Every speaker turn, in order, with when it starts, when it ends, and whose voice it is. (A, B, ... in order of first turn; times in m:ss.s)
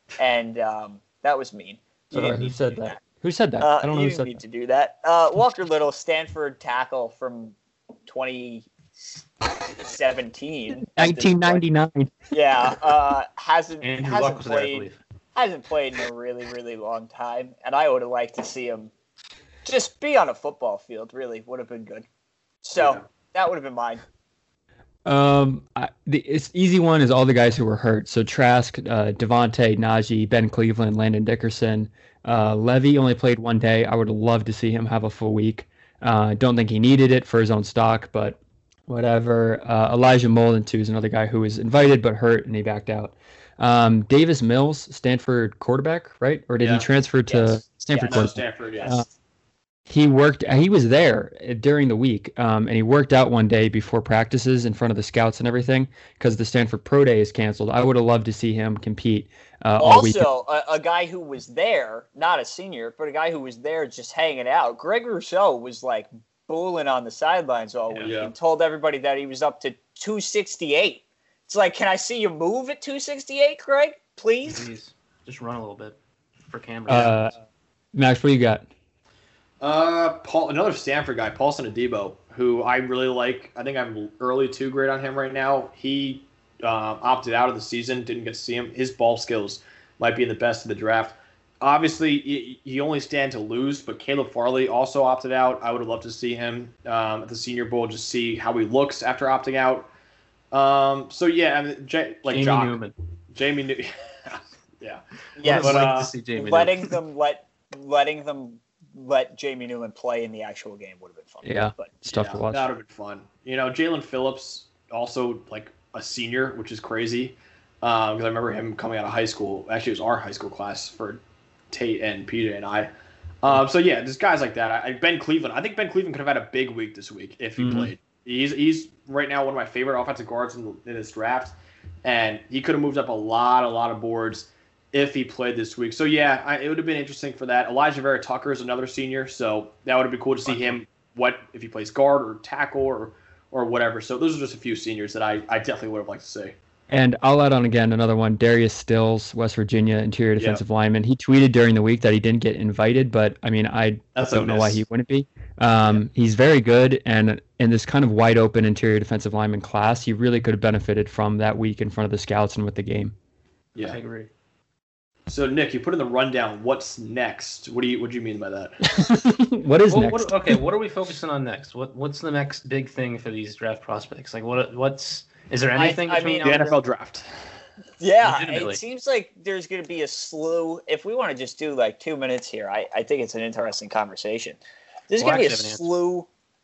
0:00.2-0:03.0 A
0:02.1-0:04.4 B
0:03.6-0:07.6 A
0:08.1-0:08.7 A
0:09.8-0:11.6 A
0:10.8-0:12.2 B
0:12.3-0:18.9 A
0:13.8-0:15.0 C
0:19.6-0:22.1 A
0:22.6-0:24.0 A
0:22.8-0:23.0 D
0:25.1-0:49.1 B
0:46.6-0:49.1 D
0:47.9-0:48.9 A
0:49.9-1:00.3 B
0:59.8-1:14.7 A
1:08.0-1:08.3 D
1:14.5-1:16.0 C
1:16.5-1:17.3 C
1:16.9-1:17.4 B
1:17.9-1:18.7 B
1:19.6-1:39.9 D
1:40.5-1:42.8 D
1:42.3-1:43.0 C
1:43.3-1:46.1 D
1:45.4-1:51.9 A
1:45.5-1:47.0 C
1:51.4-1:52.7 B
1:52.1-2:26.6 D
2:07.6-2:07.9 B
2:20.5-2:20.8 C
2:26.9-2:43.2 B
2:30.4-2:30.6 D
2:34.2-2:34.8 D
2:43.9-2:44.3 C
2:45.3-2:48.8 D
2:48.9-2:50.6 B
2:49.9-2:56.6 C
2:55.8-2:56.8 A
2:56.4-2:57.3 D
2:58.0-3:04.6 A
2:58.2-2:58.8 C
3:05.1-3:06.3 A
3:05.2-3:05.9 C